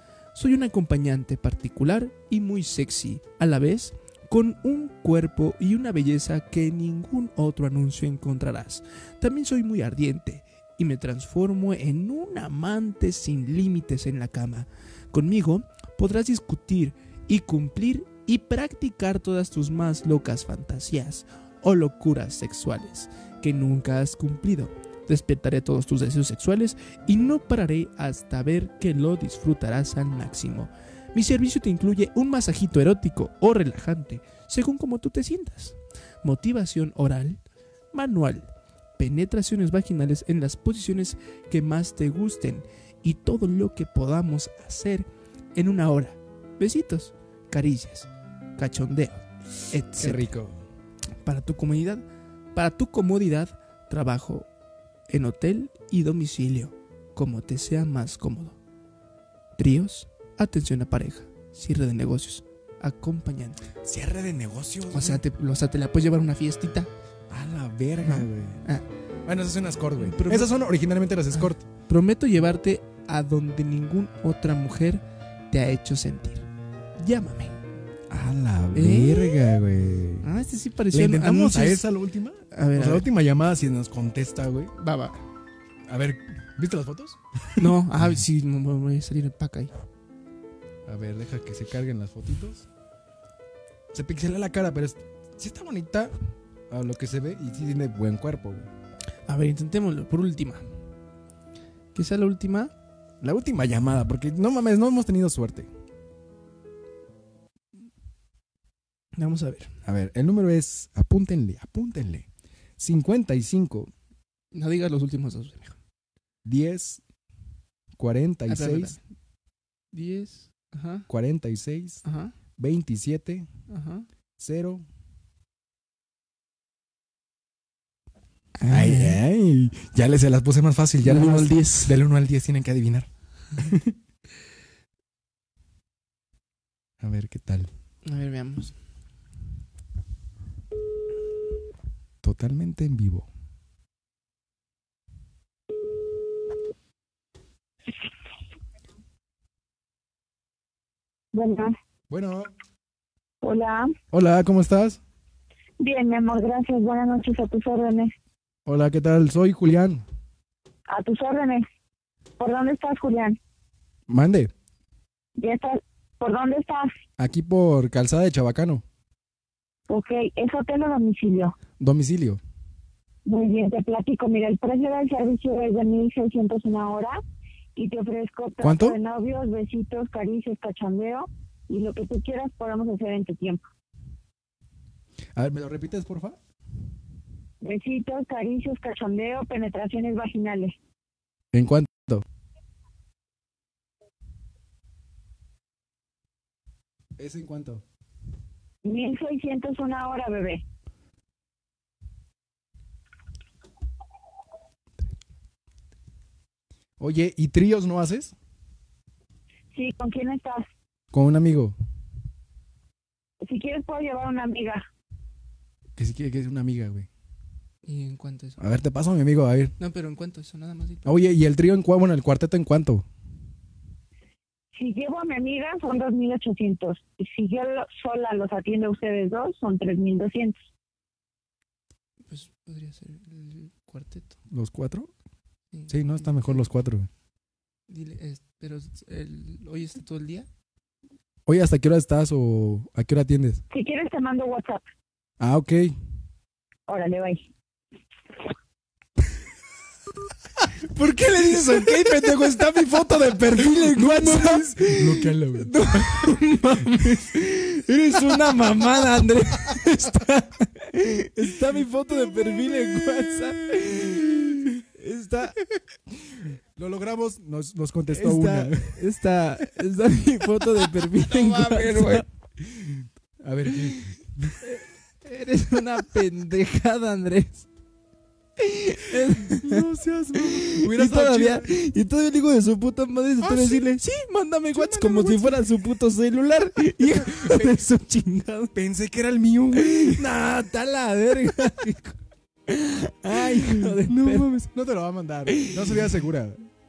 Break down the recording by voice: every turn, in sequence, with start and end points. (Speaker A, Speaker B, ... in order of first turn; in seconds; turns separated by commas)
Speaker A: 0.3-37.4, Speaker A: 37.9-50.3, Speaker B: 50.0-50.6, Speaker A: 51.2-52.0, Speaker A: 52.5-54.5, Speaker A: 55.1-58.6, Speaker A: 59.6-63.6, Speaker B: 63.8-65.2, Speaker A: 64.9-66.9, Speaker B: 67.3-68.6, Speaker A: 68.0-68.8, Speaker B: 69.3-71.6, Speaker A: 70.0-70.5, Speaker A: 71.3-76.5, Speaker A: 77.0-77.5, Speaker B: 78.1-80.3, Speaker A: 78.7-79.4, Speaker A: 80.2-81.8, Speaker B: 80.9-84.7, Speaker A: 82.5-83.1, Speaker A: 84.8-85.2, Speaker B: 85.9-87.7, Speaker A: 87.6-89.7, Speaker B: 90.8-92.7, Speaker B: 93.9-96.1, Speaker B: 96.7-98.7, Speaker A: 99.3-100.7, Speaker A: 102.0-102.7, Speaker B: 103.2-105.7, Speaker A: 109.2-109.7, Speaker B: 109.8-112.3, Speaker B: 112.8-113.9, Speaker A: 114.5-115.8, Speaker B: 116.4-117.0, Speaker B: 118.0-119.0, Speaker A: 118.5-119.0, Speaker A: 119.9-121.1, Speaker B: 121.1-122.0, Speaker A: 122.0-122.3, Speaker B: 122.6-123.5, Speaker A: 123.7-124.1, Speaker B: 124.4-124.8, Speaker A: 128.6-129.2, Speaker B: 128.7-133.9, Speaker A: 131.0-132.0, Speaker B: 137.0-137.7, Speaker A: 138.1-138.7, Speaker B: 142.2-143.3, Speaker C: 151.3-151.7, Speaker B: 152.1-152.5, Speaker C: 153.4-153.9, Speaker B: 154.1-155.0, Speaker C: 155.8-158.1, Speaker B: 158.7-160.0, Speaker C: 160.9-161.7, Speaker C: 162.4-163.4, Speaker B: 164.1-164.5, Speaker C: 165.4-166.9, Speaker B: 167.2-168.8, Speaker C: 169.9-171.5, Speaker B: 171.8-172.4, Speaker C: 173.3-177.2, Speaker C: 177.8-183.6, Speaker B: 178.6-179.0, Speaker B: 185.4-186.4, Speaker C: 187.6-190.7, Speaker B: 191.5-192.2, Speaker B: 197.2-197.8, Speaker C: 198.8-200.6, Speaker B: 207.0-208.3, Speaker C: 209.7-210.7, Speaker B: 211.1-211.8, Speaker C: 213.4-214.8, Speaker B: 216.0-217.1, Speaker A: 217.8-218.6, Speaker B: 218.6-219.7, Speaker A: 219.8-221.2, Speaker B: 221.1-223.1, Speaker C: 224.8-230.6, Speaker A: 232.3-234.4, Speaker B: 234.5-235.1, Speaker A: 235.7-236.7, Speaker B: 235.9-237.1, Speaker A: 237.9-240.5, Speaker B: 241.4-243.6, Speaker C: 243.7-244.8, Speaker B: 245.4-245.9, Speaker C: 246.9-247.4, Speaker A: 250.9-265.6, Speaker B: 251.6-257.2, Speaker B: 258.3-259.9, Speaker B: 266.3-269.0, Speaker A: 268.1-272.3, Speaker B: 270.8-274.6, Speaker A: 274.6-277.7, Speaker A: 278.6-279.9, Speaker B: 279.2-281.7, Speaker A: 280.4-288.7, Speaker B: 283.4-283.9, Speaker B: 284.7-285.6, Speaker B: 287.0-287.8, Speaker B: 288.7-290.3, Speaker A: 289.7-292.1, Speaker A: 292.7-294.5, Speaker B: 293.3-296.7, Speaker A: 295.5-296.0